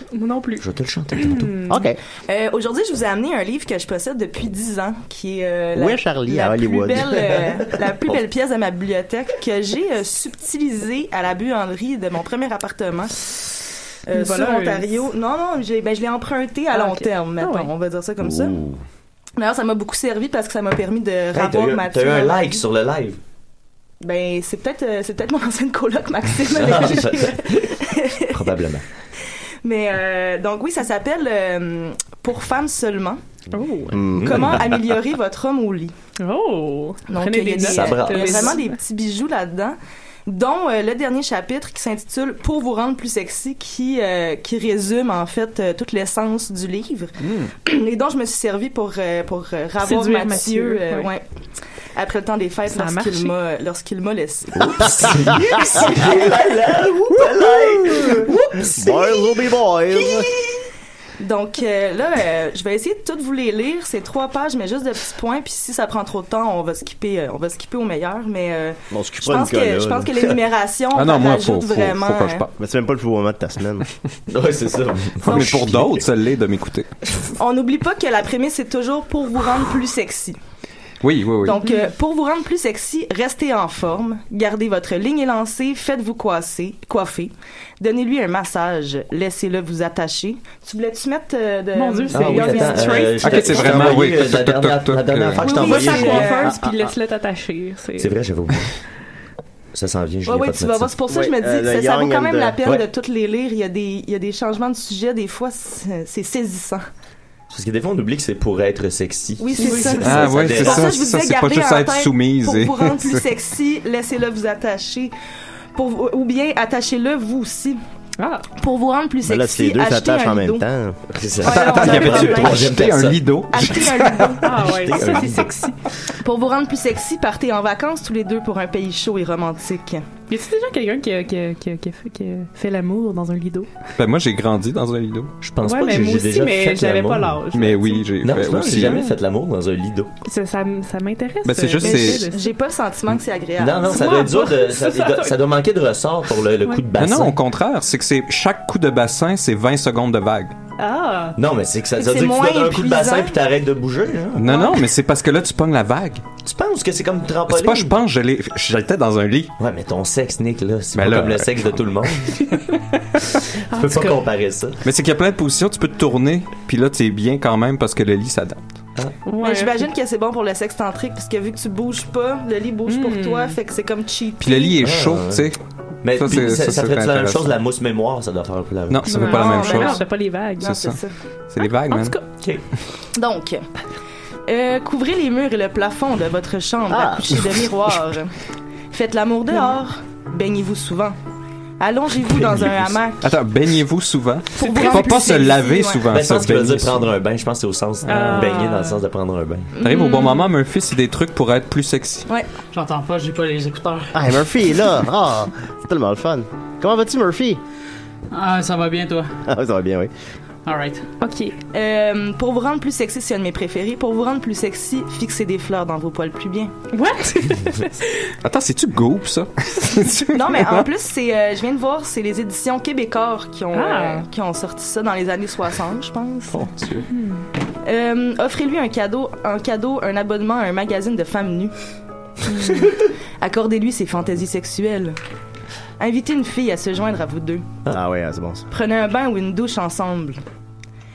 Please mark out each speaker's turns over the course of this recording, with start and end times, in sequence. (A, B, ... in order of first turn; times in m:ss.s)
0:00.1-0:00.6 A
0:00.6-0:01.5 B
0:01.1-0:01.8 A
0:01.7-0:02.0 C
0:02.3-0:18.5 D
0:05.7-0:07.5 C
0:14.1-0:14.9 A
0:16.7-0:17.7 A
0:18.2-0:18.8 B
0:19.4-0:22.6 D
0:21.3-0:23.2 B
0:24.0-0:28.5 D
0:26.5-0:27.7 B
0:28.3-0:28.8 B
0:29.6-0:33.2 D
0:33.5-0:34.0 A
0:33.9-0:34.6 C
0:34.1-0:34.9 B
0:34.2-0:35.9 D
0:36.2-0:38.8 A
0:37.1-0:51.2 D
0:37.6-0:38.6 B
0:49.8-0:51.1 A
0:51.9-0:56.5 D
0:52.7-0:53.3 A
0:54.6-0:58.3 B
0:57.9-1:00.6 D
0:58.6-1:00.3 C
1:01.2-1:12.4 D
1:08.9-1:10.1 C
1:10.9-1:12.5 E
1:12.6-1:13.8 C
1:14.3-1:16.0 B
1:15.2-1:16.9 E
1:17.4-1:20.4 D
1:21.0-1:21.6 E
1:21.4-1:33.9 D
1:31.7-1:33.8 A
1:32.1-1:36.5 B
1:33.2-1:35.4 E
1:35.4-1:36.6 D
1:35.4-1:38.1 A
1:36.5-1:36.9 C
1:38.0-1:38.8 B
1:39.7-1:40.9 B
1:40.2-1:46.8 D
1:41.1-1:42.6 C
1:47.5-1:51.0 B
1:49.4-1:55.1 D
1:49.6-1:50.1 A
1:50.0-1:53.2 E
1:55.7-1:57.8 D
1:58.2-1:58.5 A
1:58.6-2:00.6 D
1:59.2-2:01.0 C
2:01.1-2:03.2 B
2:01.4-2:05.2 D
2:01.5-2:04.4 E
2:04.4-2:05.8 A
2:04.6-2:05.5 B
2:06.2-2:10.0 D
2:10.3-2:13.7 A
2:14.0-2:15.3 E
2:15.4-2:17.4 B
2:15.6-2:18.0 A
2:17.5-2:19.1 E
2:18.2-2:20.1 B
2:20.2-2:22.5 A
2:21.4-2:22.3 E
2:21.8-2:24.0 D
2:23.6-2:27.4 B
2:23.9-2:25.4 A
2:27.0-2:30.5 E
2:30.8-2:31.4 A
2:31.4-2:34.5 B
2:32.0-2:33.4 D
2:34.3-2:36.2 E
2:34.5-2:34.7 A
2:36.4-2:37.9 B
2:37.5-2:39.5 E
2:39.6-2:42.3 B
2:40.9-2:41.7 E
2:42.4-2:44.2 A
2:43.7-2:44.8 B
2:44.8-2:48.6 E
2:49.2-2:49.8 A
2:49.4-2:54.8 D
2:52.9-2:53.6 A
2:54.4-2:57.5 E
2:54.8-2:55.5 B
2:56.0-2:59.1 B
2:58.9-3:00.0 E
2:59.0-3:00.7 A
2:59.1-3:00.1 D
3:00.6-3:01.0 E
3:00.6-3:01.1 D
3:01.5-3:02.2 E
3:01.9-3:02.2 A
3:03.1-3:03.6 D
3:04.5-3:08.3 D
3:06.9-3:07.5 C
3:08.9-3:11.2 D
3:11.8-3:13.3 D
3:12.5-3:12.9 B
3:13.2-3:17.1 E
3:14.6-3:16.1 D
3:16.1-3:19.7 B
3:18.0-3:19.0 A
3:19.8-3:20.5 D
3:19.8-3:22.2 E
3:22.7-3:24.3 F
3:24.1-3:27.6 C
3:28.3-3:29.3 F
3:29.5-3:30.1 C
3:30.6-3:31.0 F
3:31.2-3:31.6 A
3:31.7-3:36.7 D
3:36.9-3:38.1 A
3:38.4-3:40.8 E
3:40.3-3:46.7 D
3:43.7-3:44.2 A
3:46.6-3:47.0 E
3:47.1-3:47.5 A
3:47.8-3:51.7 D
3:52.5-3:52.9 A
3:52.6-3:55.2 D
3:56.0-3:57.7 D
3:57.9-3:58.7 C
3:58.7-4:00.4 D